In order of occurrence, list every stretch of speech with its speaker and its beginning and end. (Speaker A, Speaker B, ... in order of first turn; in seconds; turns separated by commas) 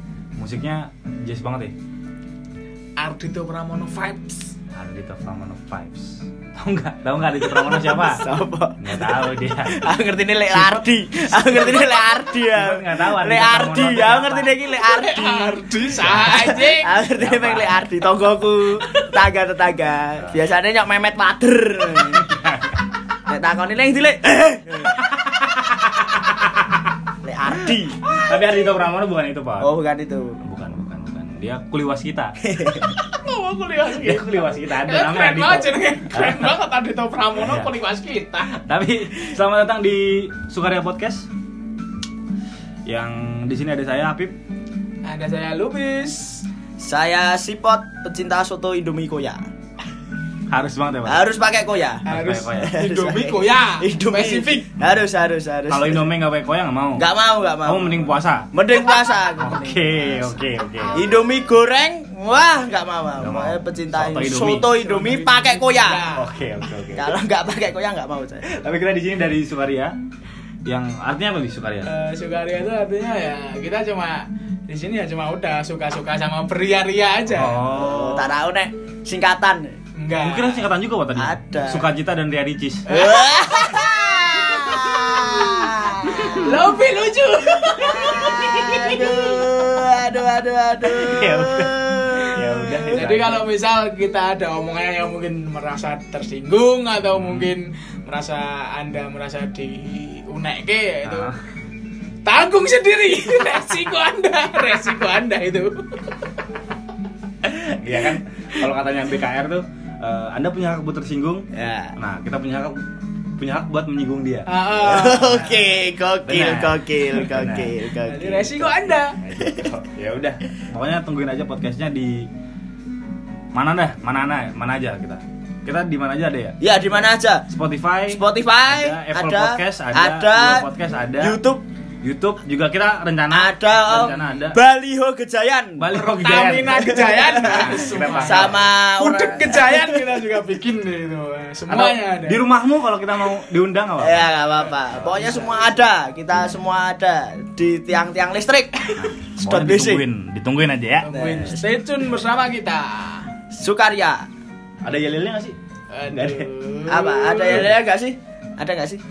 Speaker A: 0.3-1.7, Speaker B: 3.0-4.5, Speaker A: 4.7-8.2, Speaker C: 8.0-15.7, Speaker A: 8.8-9.8, Speaker A: 10.5-11.9, Speaker A: 12.5-14.5, Speaker B: 14.8-16.9, Speaker A: 16.0-16.5, Speaker C: 16.2-22.3, Speaker A: 17.1-17.9, Speaker A: 22.2-22.8, Speaker C: 23.3-25.0, Speaker A: 25.0-26.8, Speaker C: 27.2-28.0, Speaker A: 28.2-29.7, Speaker C: 29.6-30.4, Speaker A: 30.4-32.4, Speaker C: 32.4-32.9, Speaker B: 33.0-38.6, Speaker A: 33.8-36.5, Speaker A: 37.4-37.7, Speaker A: 38.5-41.3, Speaker A: 42.9-44.3, Speaker B: 45.0-46.4, Speaker C: 46.8-49.5, Speaker A: 50.5-51.2, Speaker C: 51.0-52.0, Speaker B: 52.0-54.7, Speaker A: 52.0-52.7, Speaker C: 52.6-56.1, Speaker A: 55.7-57.1, Speaker C: 57.0-60.4, Speaker A: 57.6-58.5, Speaker A: 59.4-61.1, Speaker C: 60.9-66.0, Speaker A: 63.2-64.7, Speaker B: 64.8-66.3, Speaker A: 66.1-67.1, Speaker C: 66.9-68.5, Speaker A: 68.5-69.9, Speaker A: 70.6-71.9, Speaker B: 71.8-77.7, Speaker A: 77.3-78.3, Speaker C: 77.8-79.8, Speaker B: 79.9-80.6, Speaker A: 80.2-82.9, Speaker C: 81.1-81.9, Speaker C: 82.9-86.4, Speaker B: 82.9-83.4, Speaker B: 86.1-89.6, Speaker C: 87.6-93.0, Speaker A: 90.8-93.4, Speaker B: 92.9-101.3, Speaker A: 97.1-97.5, Speaker A: 101.0-101.3, Speaker B: 102.2-106.1, Speaker A: 107.4-111.5, Speaker C: 111.5-112.0, Speaker A: 112.0-112.8, Speaker A: 113.4-114.5, Speaker B: 114.5-115.5, Speaker C: 114.8-119.7, Speaker A: 116.2-117.7, Speaker B: 118.0-119.2, Speaker A: 119.2-122.3, Speaker A: 123.5-126.6, Speaker C: 126.6-127.5, Speaker A: 127.5-131.4, Speaker C: 128.1-131.6, Speaker A: 132.0-134.6, Speaker C: 133.3-135.8, Speaker A: 135.8-138.7, Speaker B: 136.1-142.4, Speaker C: 136.7-140.2, Speaker A: 141.7-144.3, Speaker C: 144.0-150.0, Speaker A: 144.8-145.7, Speaker A: 149.0-151.1, Speaker B: 151.0-153.3, Speaker C: 151.1-151.7, Speaker C: 153.5-154.2, Speaker A: 154.8-155.6, Speaker B: 155.9-157.7, Speaker A: 156.1-156.5, Speaker C: 156.9-159.0, Speaker A: 157.5-157.7